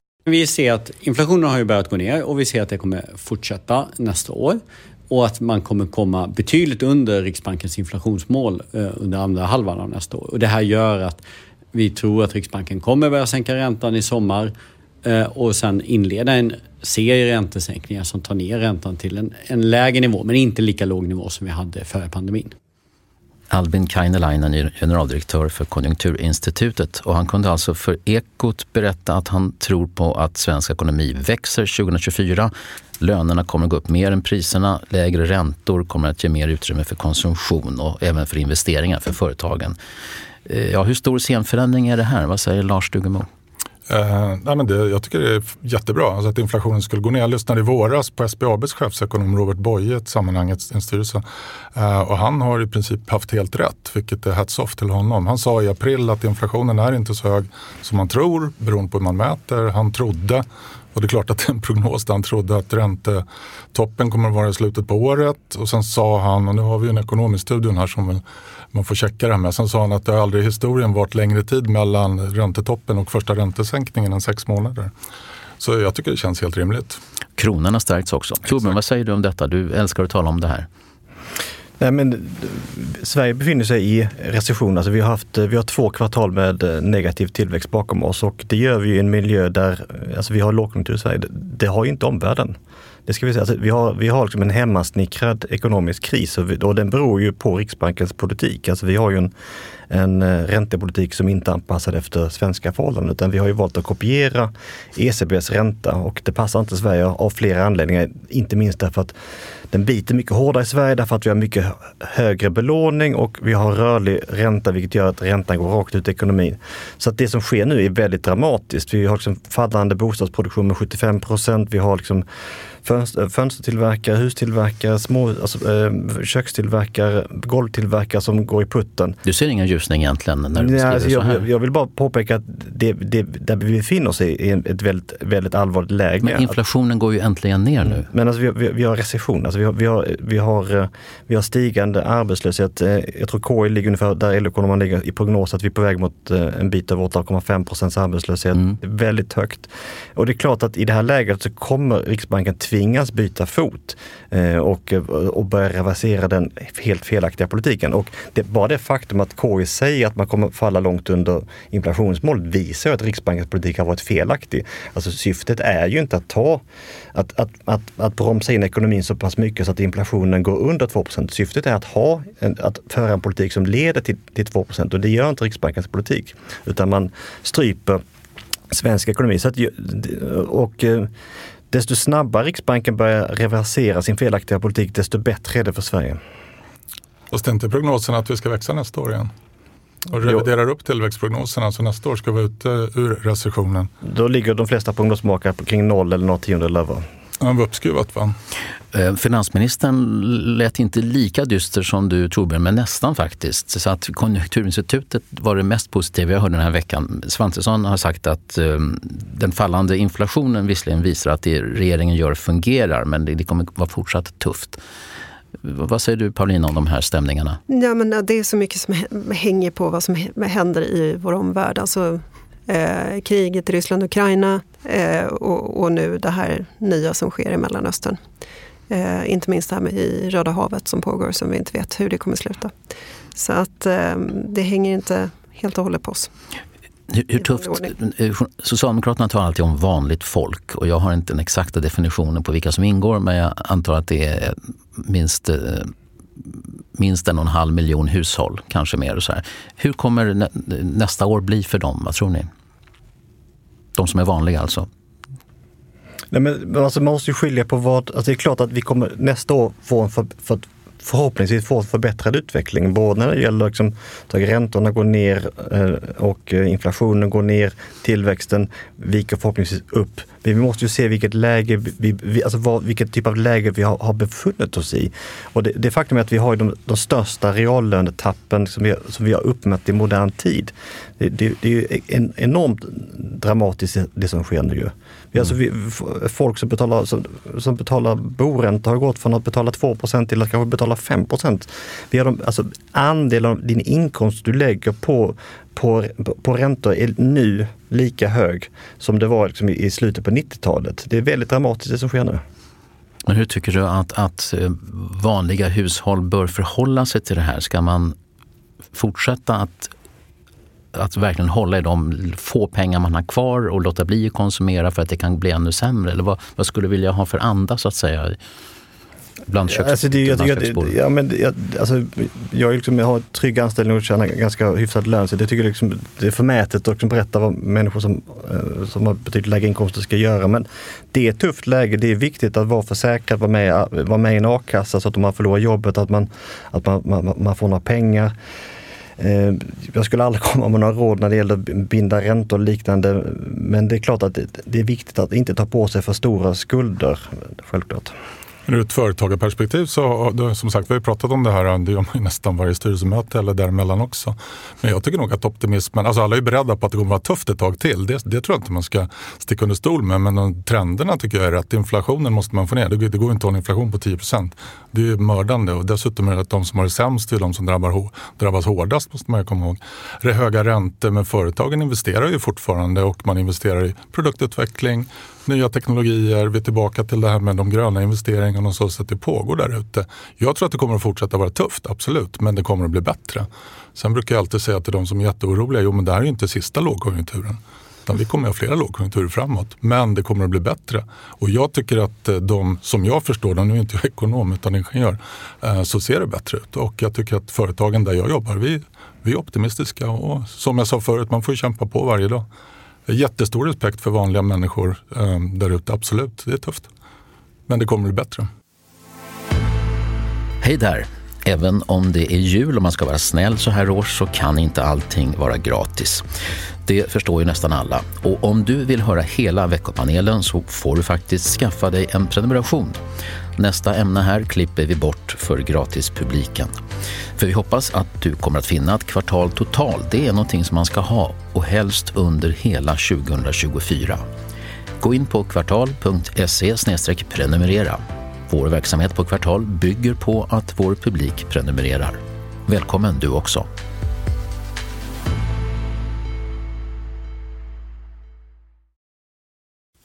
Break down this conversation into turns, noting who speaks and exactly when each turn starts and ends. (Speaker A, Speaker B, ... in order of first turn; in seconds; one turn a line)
Speaker A: 0.3-11.2
Speaker A: 11.7-14.5
Speaker A: 15.0-22.5
Speaker B: 23.5-39.8
Speaker B: 40.5-43.3
Speaker C: 43.9-51.2
Speaker C: 51.7-74.9
Speaker C: 75.6-77.0
Speaker B: 77.4-80.7
Speaker D: 81.8-92.5
Speaker D: 93.1-99.3
Speaker D: 99.9-109.1
Speaker D: 109.7-122.2
Speaker D: 122.8-129.2
Speaker B: 129.2-131.4
Speaker D: 130.6-136.5
Speaker B: 136.2-138.1
Speaker D: 137.8-166.6
Speaker D: 167.1-178.0
Speaker D: 178.7-181.1
Speaker D: 181.7-186.2
Speaker C: 187.3-189.3
Speaker C: 190.1-193.9
Speaker D: 194.0-197.0
Speaker C: 197.4-198.3
Speaker B: 198.9-214.8
Speaker B: 215.6-217.6
Speaker E: 217.7-228.2
Speaker E: 228.9-232.7
Speaker E: 233.3-236.3
Speaker B: 237.1-245.9
Speaker E: 237.4-237.9
Speaker B: 246.4-252.5
Speaker B: 253.9-254.9
Speaker D: 256.3-302.4
Speaker B: 303.2-308.1
Speaker B: 308.9-309.9
Speaker B: 310.9-318.4
Speaker B: 319.5-320.9
Speaker D: 319.7-338.3
Speaker D: 339.2-348.1
Speaker C: 348.7-402.4
Speaker C: 403.1-406.9
Speaker C: 407.7-408.5
Speaker B: 410.6-416.2
Speaker B: 416.8-423.0
Speaker B: 423.6-426.7
Speaker B: 427.4-434.2
Speaker B: 435.0-443.7